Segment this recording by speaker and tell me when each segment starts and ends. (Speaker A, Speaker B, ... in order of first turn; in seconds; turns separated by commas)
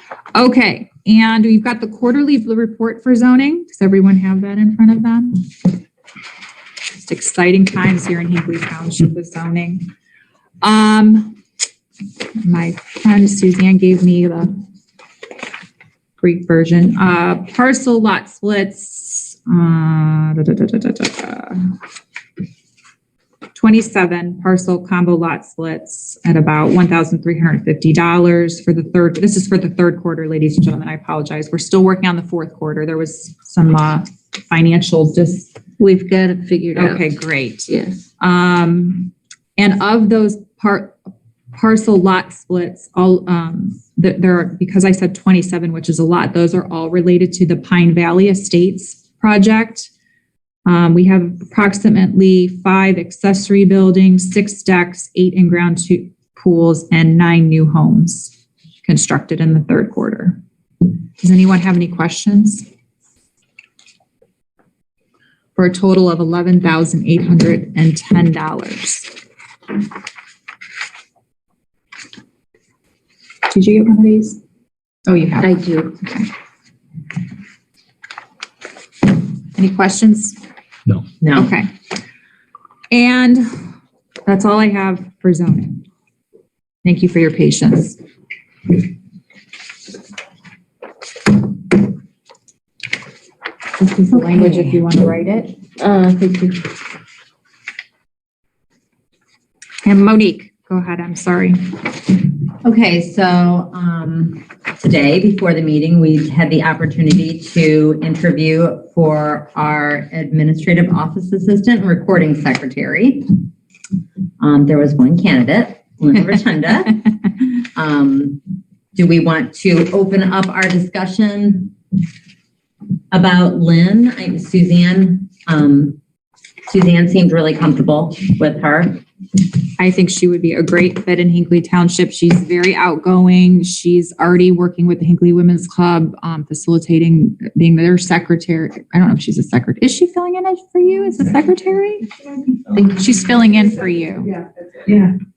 Speaker A: 0.3-5.5, Speaker A: 7.0-9.9, Speaker A: 10.6-11.4, Speaker A: 12.4-14.5, Speaker A: 16.2-21.7, Speaker A: 23.5-35.5, Speaker B: 35.8-37.1, Speaker A: 36.7-41.0, Speaker B: 37.7-38.0, Speaker A: 41.5-49.9, Speaker A: 50.6-60.4, Speaker A: 61.2-62.6, Speaker A: 65.5-69.1, Speaker A: 73.5-74.4, Speaker A: 75.0-76.3, Speaker B: 75.4-76.0, Speaker A: 79.5-80.4, Speaker C: 81.2-81.5, Speaker A: 81.3-81.7, Speaker A: 82.9-83.5, Speaker A: 84.2-85.8, Speaker A: 86.8-88.0, Speaker A: 93.8-95.5, Speaker B: 94.1-94.7, Speaker B: 95.8-96.7, Speaker A: 99.8-101.7, Speaker C: 102.6-113.4, Speaker C: 114.4-118.4, Speaker C: 118.9-121.7, Speaker C: 123.1-126.0, Speaker C: 126.7-129.0, Speaker A: 129.8-142.1, Speaker A: 142.7-144.3